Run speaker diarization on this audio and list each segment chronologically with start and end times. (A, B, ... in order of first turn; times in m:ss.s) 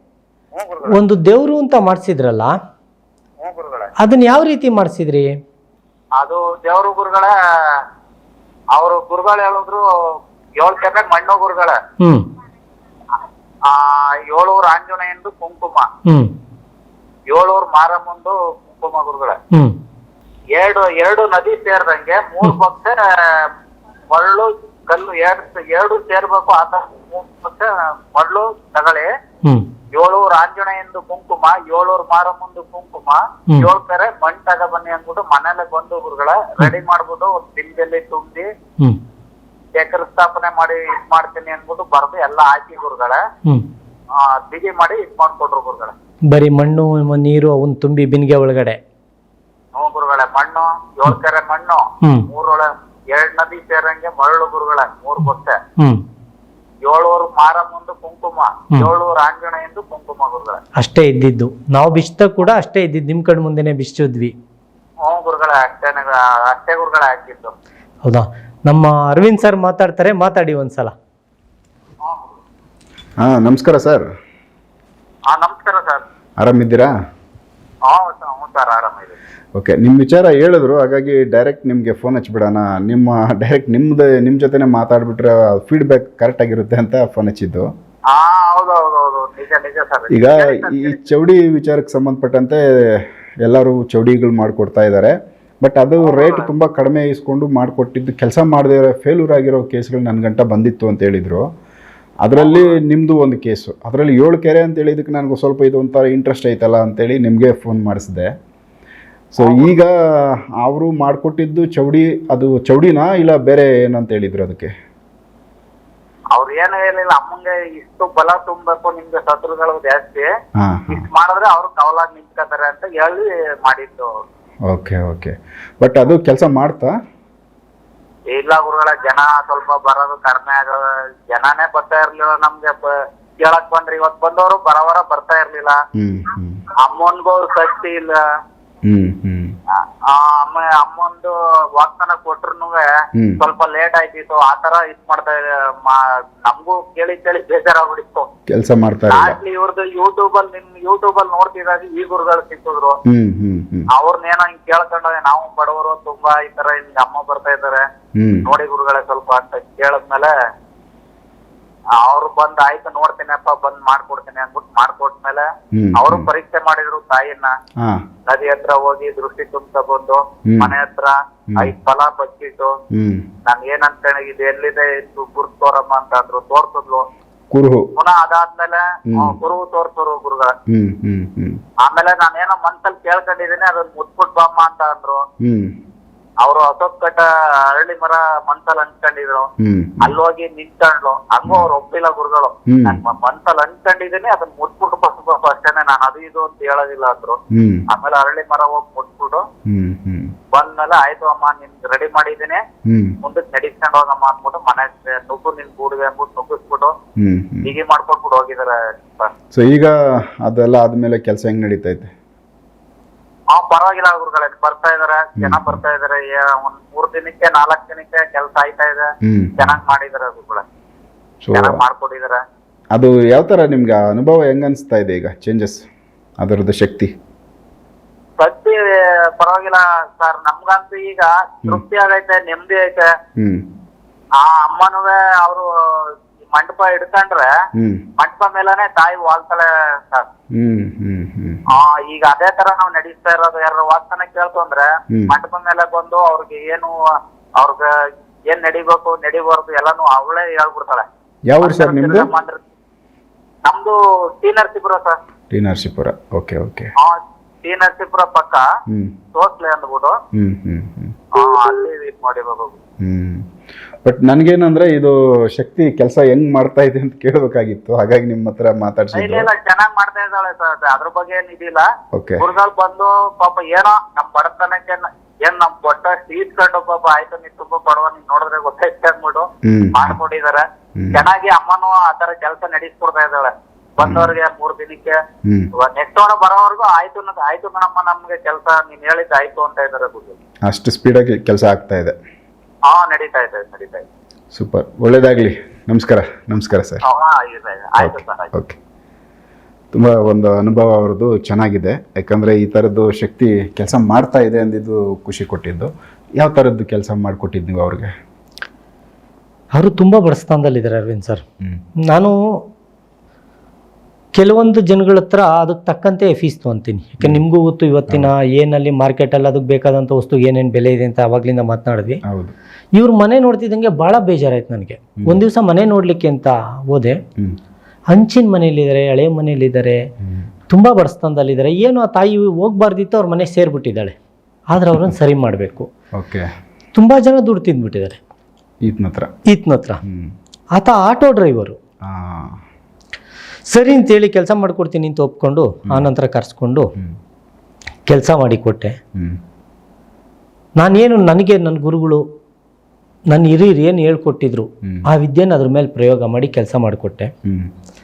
0:00.5-0:01.0 A
0:00.8-0:02.5 B
0:03.4-0:03.9 A
0:04.0-0:05.3 B
0:06.2-0:07.8 A
0:08.7-0:09.8 A
0:10.6-0:11.8 A
0:12.0-0:12.2 B
0:13.6-0:15.9 A
0:16.0-0:16.3 B
0:17.3-0:19.4 A
0:19.5-0:19.8 B
0:20.6-0:23.5 A
0:24.1-0:29.1 A
0:29.9-0:38.5 A
0:39.7-0:43.2 A
0:44.2-0:45.9 A
0:46.3-0:48.8 B
0:49.7-0:55.6 A
0:52.0-0:52.3 B
0:55.8-0:56.0 B
0:56.8-1:00.6 A
1:00.8-1:04.3 B
1:05.0-1:07.5 A
1:08.0-1:10.9 B
1:12.0-1:12.4 A
1:13.2-1:14.0 C
1:15.3-1:16.0 A
1:16.4-1:16.9 C
1:17.9-1:19.2 A
1:19.6-1:27.7 C
1:28.1-1:31.0 A
1:30.1-1:41.5 C
1:36.0-1:36.5 A
1:42.2-1:48.3 C
1:42.4-1:42.8 A
1:49.3-1:54.7 C
1:49.4-1:49.7 A
1:56.3-2:00.3 A
2:00.6-2:01.0 C
2:00.9-2:04.1 A
2:04.7-2:06.9 C
2:08.3-2:15.8 A
2:16.0-2:16.6 C
2:16.8-2:18.2 A
2:18.8-2:19.5 C
2:20.1-2:22.8 A
2:23.4-2:28.3 A
2:28.5-2:29.4 C
2:29.1-2:33.0 A
2:33.1-2:33.9 C
2:33.9-2:37.8 A
2:38.2-2:38.5 C
2:38.4-2:40.3 A
2:42.0-2:47.5 A
2:45.7-2:46.3 C
2:48.3-2:52.7 A
2:50.5-2:50.7 C
2:52.9-2:53.3 C
2:53.5-2:57.0 A
2:57.5-2:57.9 C
2:58.0-3:00.5 A
2:59.1-2:59.4 C
3:00.7-3:01.6 C
3:01.8-3:05.2 A
3:05.4-3:05.7 C
3:06.4-3:09.5 A
3:09.6-3:10.2 C
3:10.0-3:17.4 A
3:12.7-3:13.0 C
3:17.5-3:17.8 C
3:17.9-3:19.4 A
3:19.7-3:20.3 C
3:20.5-3:22.6 A
3:22.8-3:23.2 C
3:23.2-3:26.9 A
3:27.2-3:27.7 C
3:27.6-3:29.3 A
3:29.5-3:32.1 C
3:33.5-3:40.6 A
3:35.4-3:35.8 C
3:39.2-3:39.8 C
3:41.4-3:41.8 C
3:41.5-3:42.4 A
3:42.9-3:45.8 C
3:46.4-3:47.1 C
3:48.4-3:53.1 A
3:53.4-3:53.6 C
3:54.4-3:57.5 A
3:57.7-3:58.0 C
3:58.2-4:00.2 A
4:00.5-4:01.7 C
4:01.7-4:06.9 A
4:07.6-4:07.8 A
4:08.5-4:11.0 A
4:11.5-4:12.3 C
4:11.6-4:12.6 A
4:13.6-4:15.2 A
4:15.5-4:16.9 C
4:17.0-4:18.6 A
4:18.9-4:19.2 C
4:19.3-4:20.2 A
4:20.3-4:21.1 C
4:21.3-4:22.7 A
4:23.0-4:23.4 C
4:24.0-4:29.5 C
4:29.1-4:31.9 A
4:32.1-4:32.4 C
4:32.4-4:45.2 A
4:39.6-4:40.2 C
4:41.0-4:41.3 C
4:44.0-4:44.3 C
4:45.4-4:45.7 C
4:45.8-4:50.4 A
4:50.6-4:52.1 C
4:52.9-4:54.0 A
4:54.5-4:57.0 C
4:57.1-4:58.5 A
4:58.0-4:58.8 C
4:59.9-5:08.1 C
5:09.7-5:11.4 B
5:12.1-5:12.4 B
5:14.4-5:22.2 B
5:22.3-5:22.5 C
5:22.9-5:27.2 B
5:28.1-5:30.0 B
5:30.2-5:30.5 C
5:30.7-5:34.2 B
5:34.7-5:35.9 B
5:36.2-5:36.5 C
5:36.9-5:38.2 B
5:38.8-5:39.3 C
5:39.5-5:40.0 B
5:40.0-5:40.3 C
5:40.7-5:41.8 B
5:42.0-5:42.6 C
5:43.7-5:46.9 B
5:48.0-5:49.0 B
5:50.8-5:52.2 B
5:53.3-5:57.3 B